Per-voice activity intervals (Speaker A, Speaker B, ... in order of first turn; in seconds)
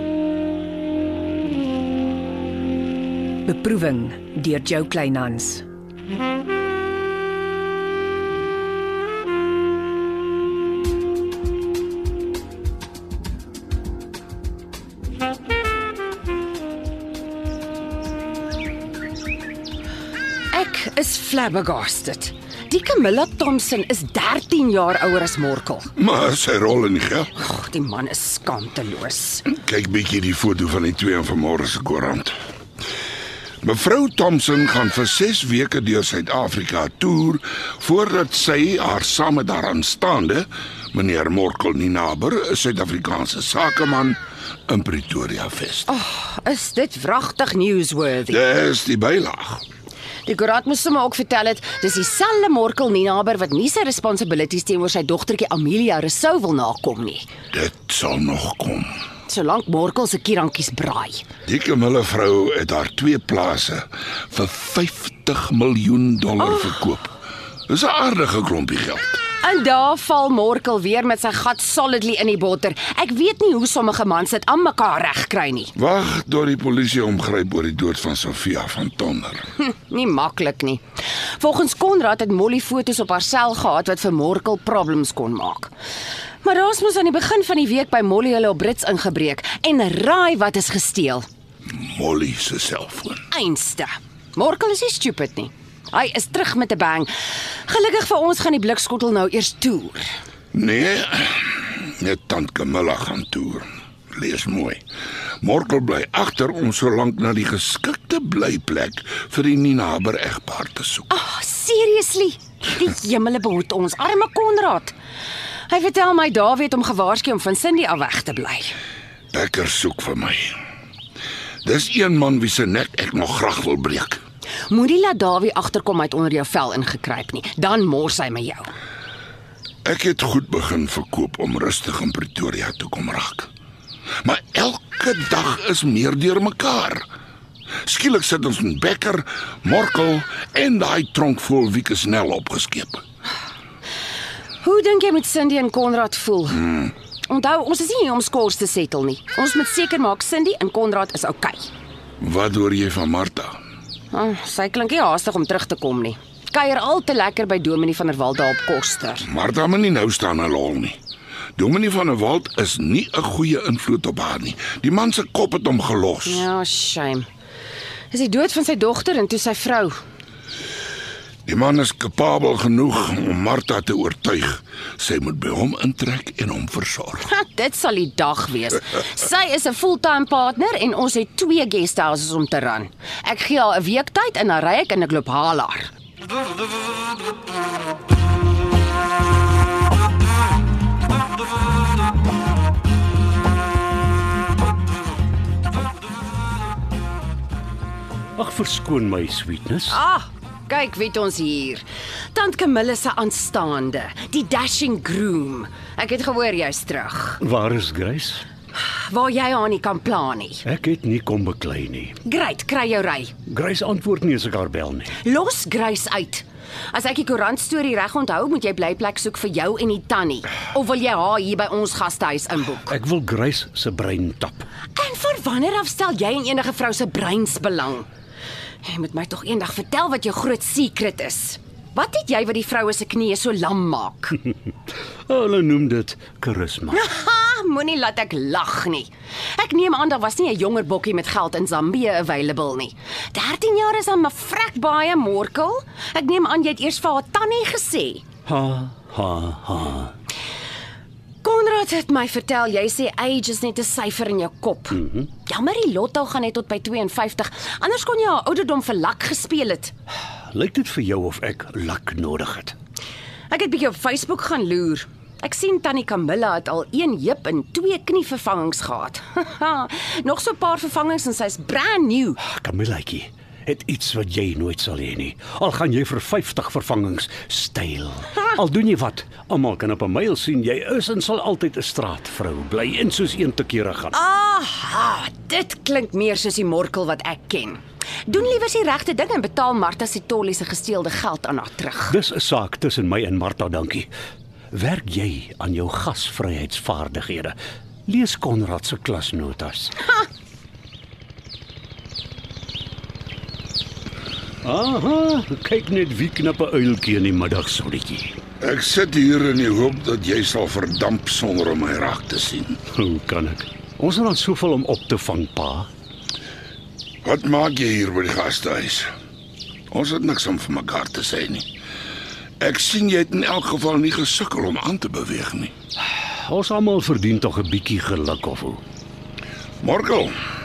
Speaker A: 3.5-5.6
Speaker B: 20.5-25.9, 27.3-29.4, 45.9-48.4, 50.2-57.3, 59.3-61.2, 66.4-66.7, 69.4-75.7, 79.6-80.8, 81.3-85.7, 86.4-91.2, 93.3-97.1, 97.7-100.0, 111.1-114.9, 115.7-118.7, 124.7-128.7, 144.6-146.7, 147.3-151.7, 154.1-159.2, 166.2-167.3, 168.1-169.9, 177.2-185.9, 199.9-207.4, 208.8-210.6, 212.2-213.3, 215.2-222.9, 224.9-228.1, 228.8-234.4, 236.9-248.2, 251.4-259.9, 263.5-272.4, 284.1-292.1
Speaker C: 26.0-27.3, 29.5-32.3, 33.6-45.9, 48.3-49.6, 57.5-58.9, 61.5-67.2, 67.7-69.2, 75.8-79.5, 91.7-93.2, 100.5-104.8, 105.4-111.1, 119.3-120.5, 121.6-124.2, 129.8-133.5, 134.2-137.1, 137.8-143.0, 152.2-153.6, 159.2-161.0, 161.6-166.5, 171.4-177.2, 308.6-312.8, 317.2-319.1, 319.9-321.7, 322.6-325.7, 329.8-330.3
Speaker D: 198.4-200.0, 207.4-208.4, 210.6-212.2, 213.5-215.1, 222.9-224.7, 235.3-237.0, 248.5-250.1, 260.5-262.7, 272.5-284.1, 292.1-294.1, 294.7-297.5, 298.1-300.0, 304.6-308.4, 312.9-315.9, 326.4-328.8